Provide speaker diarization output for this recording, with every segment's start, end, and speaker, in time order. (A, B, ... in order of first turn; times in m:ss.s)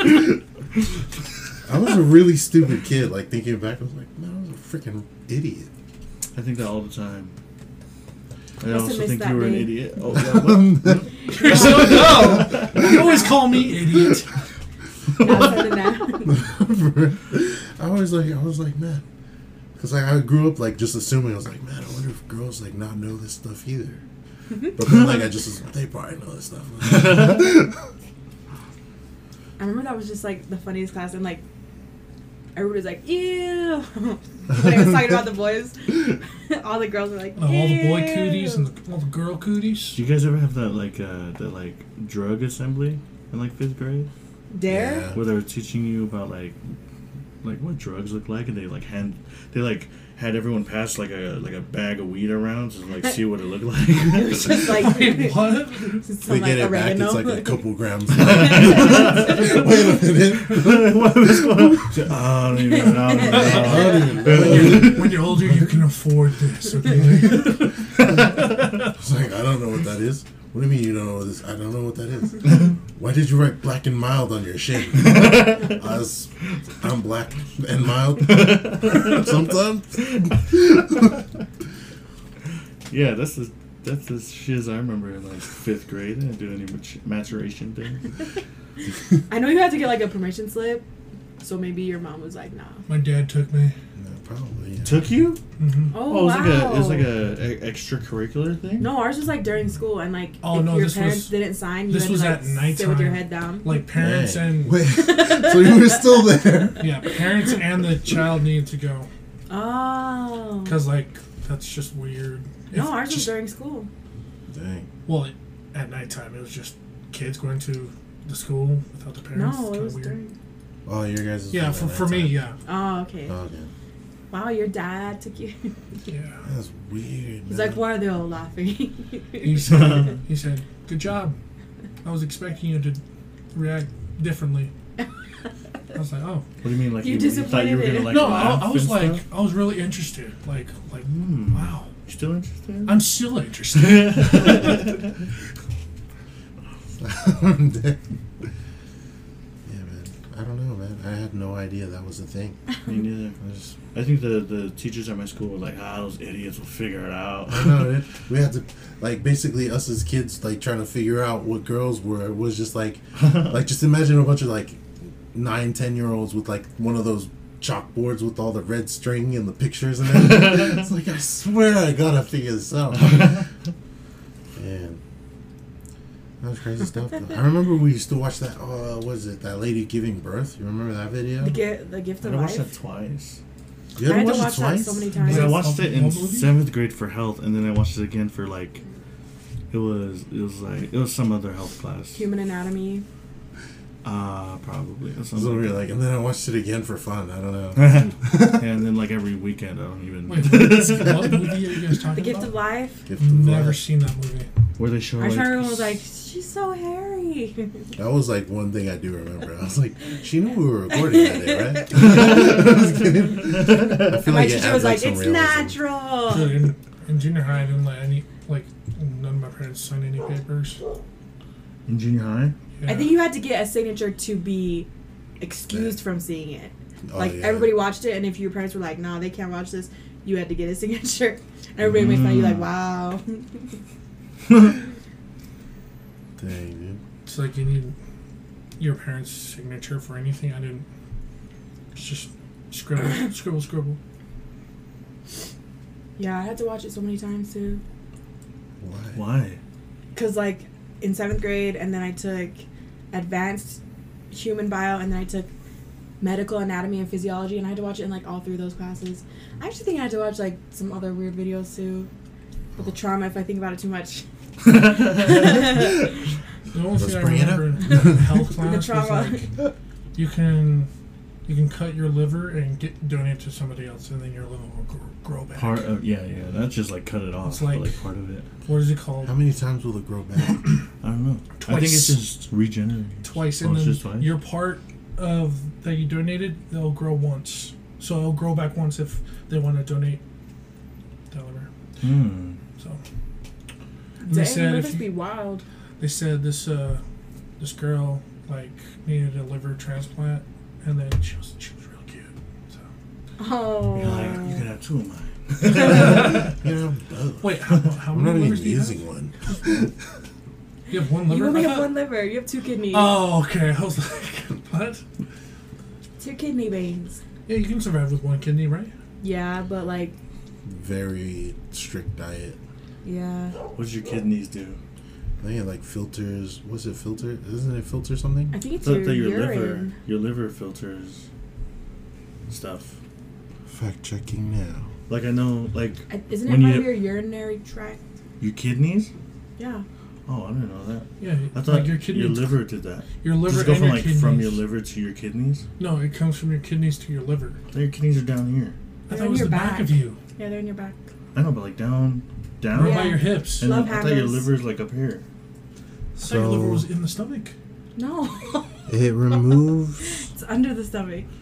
0:01.6-0:05.7 A
0:06.3-0:07.3 B
0:08.6-0:11.7 B
0:08.6-0:09.8 C
0:10.1-0:12.2 A
0:11.3-0:14.3 D
0:11.3-0:13.4 C
0:12.3-0:12.7 B
0:15.2-0:15.6 B
0:15.2-0:16.4 C
0:16.1-0:19.0 A
0:19.8-0:24.0 A
0:24.7-0:27.7 A
0:26.8-0:27.5 B
0:29.6-0:31.4 C
0:32.5-0:38.6 C
0:37.4-0:40.0 D
0:39.9-0:44.1 B
0:44.5-0:45.1 C
0:44.7-0:45.2 A
0:45.1-0:46.6 B
0:47.4-0:54.8 B
0:54.0-0:57.6 C
0:54.7-0:56.0 D
0:56.2-1:02.3 A
0:58.1-0:59.6 B
0:58.2-0:59.6 C
1:00.3-1:05.4 B
1:02.7-1:04.4 C
1:03.1-1:05.4 A
1:03.2-1:07.7 D
1:07.1-1:07.5 A
1:08.0-1:08.6 B
1:08.8-1:21.2 A
1:14.9-1:15.8 B
1:18.2-1:19.4 B
1:22.9-1:28.1 B
1:29.3-1:30.8 C
1:31.4-1:32.8 C
1:32.9-1:33.7 D
1:34.0-1:35.0 A
1:34.8-1:35.4 B
1:35.6-1:36.0 D
1:35.9-1:37.1 C
1:35.9-1:39.0 B
1:38.8-1:43.7 C
1:40.4-1:41.3 D
1:41.9-1:44.8 D
1:43.9-1:46.8 A
1:44.9-1:46.2 C
1:46.8-1:49.1 D
1:49.5-1:50.8 C
1:50.6-1:53.3 D
1:52.7-1:53.9 C
1:54.5-1:54.9 A
1:55.0-2:00.2 D
1:59.3-2:00.3 C
2:00.8-2:02.4 A
2:01.5-2:02.6 D
2:02.6-2:03.3 C
2:03.3-2:03.7 A
2:04.3-2:05.7 C
2:06.0-2:06.4 D
2:06.4-2:07.8 A
2:07.5-2:10.1 C
2:09.4-2:11.4 D
2:09.6-2:10.2 B
2:12.0-2:13.0 D
2:13.5-2:14.7 D
2:15.9-2:16.4 D
2:16.6-2:19.2 B
2:17.0-2:18.4 C
2:18.0-2:21.9 D
2:21.1-2:23.0 B
2:22.8-2:24.9 D
2:23.7-2:25.1 B
2:27.0-2:28.0 A
2:29.6-2:32.6 A
2:32.8-2:33.4 B
2:33.4-2:33.8 A
2:33.9-2:38.0 B
2:37.5-2:53.4 A
2:43.2-2:43.5 B
2:52.9-2:53.4 B
2:54.6-2:55.0 A
2:56.4-3:01.6 A
3:01.4-3:02.7 C
3:02.2-3:03.4 B
3:04.0-3:05.1 A
3:04.0-3:05.7 C
3:05.2-3:06.6 D
3:05.2-3:08.8 B
3:09.7-3:12.3 B
3:12.1-3:13.0 C
3:14.0-3:15.8 B
3:15.3-3:18.6 A
3:17.7-3:21.5 B
3:20.3-3:22.5 D
3:22.1-3:23.0 C
3:23.1-3:23.8 A
3:23.2-3:24.5 D
3:24.8-3:26.0 B
3:25.2-3:27.8 C
3:28.0-3:35.8 A
3:30.9-3:32.6 C
3:32.0-3:32.6 B
3:33.4-3:34.2 B
3:34.1-3:36.6 C
3:36.3-3:40.8 D
3:41.8-3:42.5 B
3:42.8-3:43.1 D
3:42.8-3:44.9 C
3:45.4-3:53.7 C
3:47.1-3:47.8 A
3:51.9-3:52.6 B
3:56.4-3:57.0 A
3:57.2-3:57.9 D
3:58.8-4:00.8 D
4:01.9-4:04.0 D
4:06.2-4:07.8 C
4:08.8-4:09.2 A
4:09.1-4:09.6 B
4:10.1-4:13.8 C
4:14.3-4:15.5 C
4:16.2-4:22.1 C
4:22.8-4:26.1 C
4:24.6-4:25.8 B
4:26.7-4:29.5 D
4:27.0-4:28.3 A
4:27.9-4:29.5 C
4:30.1-4:30.9 D
4:31.4-4:35.9 D
4:35.6-4:38.5 B
4:37.4-4:37.9 D
4:38.6-4:39.4 D
4:39.2-4:40.7 A
4:41.0-4:44.3 B
4:41.6-4:42.2 D
4:43.2-4:50.2 D
4:51.3-4:51.7 D
4:52.0-4:52.6 B
4:54.2-4:55.6 C
4:54.3-4:55.1 D
4:56.0-4:57.0 D
4:57.6-5:02.8 D
5:03.4-5:04.7 C
5:03.9-5:06.5 B
5:05.8-5:09.9 A
5:05.9-5:06.5 D
5:07.4-5:09.0 D
5:10.9-5:12.0 D
5:11.3-5:13.2 C
5:12.9-5:15.0 D
5:16.2-5:17.2 C
5:17.5-5:18.9 D
5:19.2-5:20.2 C
5:20.6-5:22.6 A
5:23.0-5:23.6 C
5:23.7-5:24.8 B
5:25.4-5:28.5 A
5:28.5-5:29.9 C
5:28.8-5:31.2 B
5:32.5-5:33.0 B
5:33.7-5:34.9 A
5:35.1-5:37.0 B
5:36.1-5:38.0 C
5:38.4-5:39.1 B
5:39.6-5:39.8 C
5:40.3-5:45.6 B
5:41.2-5:42.5 D
5:43.2-5:44.6 D
5:45.8-5:47.6 D
5:47.7-5:48.7 B
5:49.1-5:50.2 D
5:49.1-5:51.0 C
5:51.3-5:55.2 B
5:52.7-5:53.7 D
5:52.7-5:54.5 C
5:56.2-5:57.5 D
5:56.2-5:56.9 A
5:58.0-6:01.3 C
5:58.9-6:00.2 A